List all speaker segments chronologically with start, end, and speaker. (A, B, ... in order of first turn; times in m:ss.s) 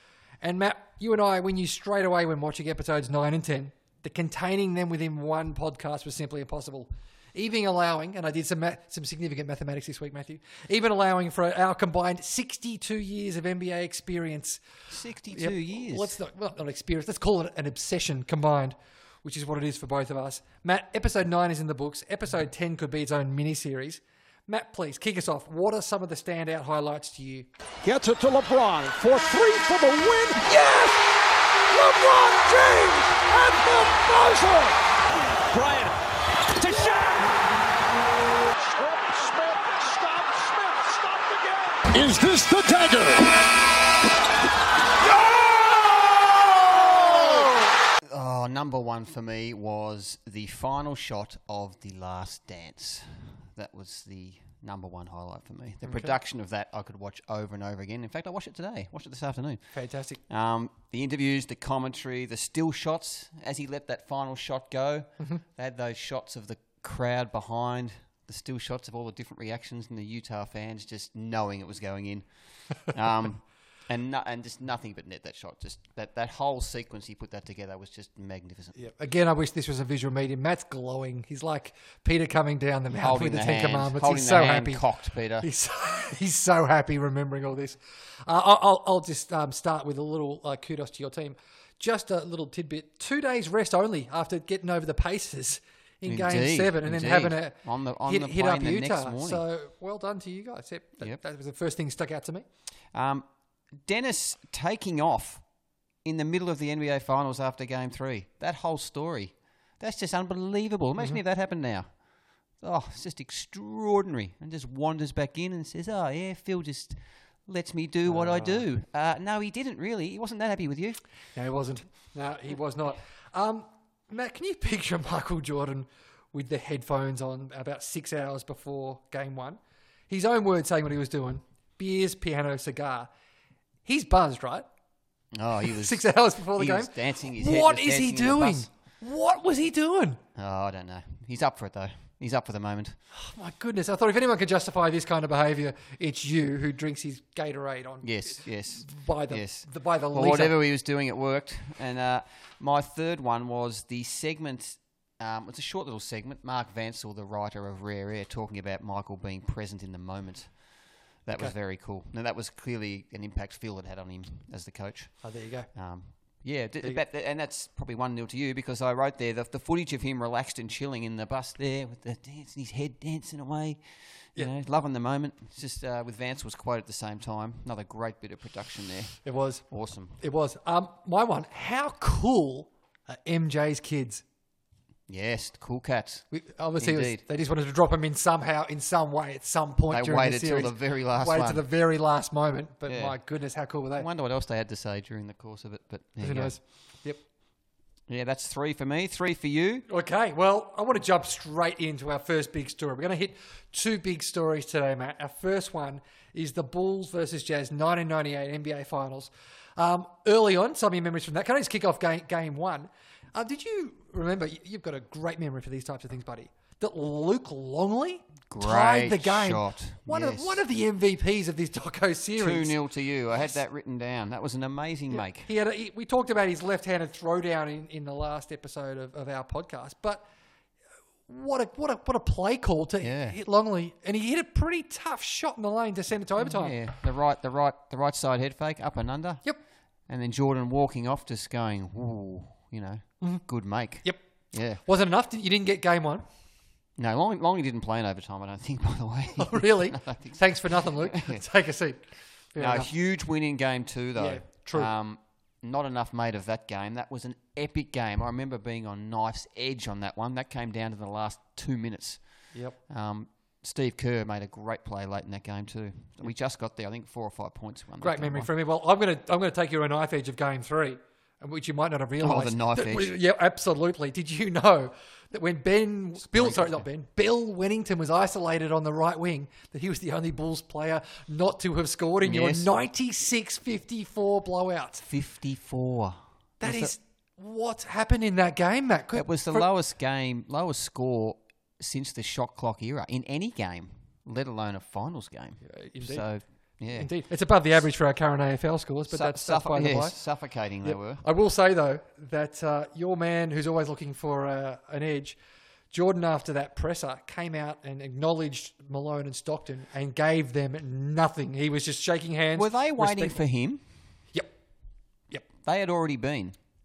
0:00.4-0:14.6 A
0:14.9-0:16.2 B
0:15.3-0:27.5 A
0:27.8-0:31.0 C
0:31.7-0:34.8 C
0:32.5-0:32.8 A
0:35.5-0:36.0 C
0:36.5-0:37.4 C
0:38.5-0:43.4 C
0:45.2-0:45.8 C
0:46.7-0:47.4 C
0:48.1-0:59.6 B
0:55.8-0:56.1 A
0:59.7-1:00.2 A
1:00.3-1:18.8 B
1:18.8-1:24.8 A
1:22.9-1:25.5 B
1:25.4-1:42.5 A
1:36.0-1:39.4 B
1:42.9-1:43.3 B
1:43.8-1:45.4 B
1:46.0-1:51.9 B
1:52.6-2:01.0 B
1:58.1-1:58.6 A
2:01.4-2:13.1 A
2:13.8-2:14.7 A
2:15.3-2:18.7 B
2:15.7-2:20.2 A
2:20.4-2:23.0 B
2:23.1-2:30.6 A
2:28.0-2:40.6 B
2:41.2-2:45.2 B
2:45.2-2:45.7 A
2:45.7-2:53.8 B
2:54.3-3:00.2 B
2:59.2-2:59.7 A
3:00.2-3:04.2 A
3:05.1-3:06.3 B
3:06.3-3:14.1 A
3:06.8-3:07.2 B
3:09.9-3:11.6 B
3:12.9-3:13.2 B
3:14.0-3:16.6 B
3:16.2-3:17.2 A
3:18.1-3:19.9 B
3:19.9-3:42.8 A
3:38.5-3:40.6 B
3:42.4-3:45.5 B
3:45.1-3:50.2 A
3:51.3-3:56.8 A
3:53.0-3:53.4 B
3:56.4-3:59.4 B
4:00.1-4:04.8 B
4:04.8-4:06.3 A
4:07.0-4:11.4 B
4:09.4-4:12.9 A
4:12.6-4:22.2 B
4:14.2-4:14.9 A
4:22.9-4:28.5 B
4:28.0-4:45.0 A
4:32.2-4:33.1 B
4:36.3-4:36.8 B
4:42.2-4:42.7 B
4:45.0-4:46.9 B
4:46.6-4:49.7 A
4:49.1-4:57.1 B
4:55.7-4:56.3 A
4:56.9-5:00.2 A
4:59.1-5:01.2 B
5:00.8-5:05.4 A
5:05.9-5:13.4 A
5:12.6-5:13.8 B
5:15.6-5:16.6 B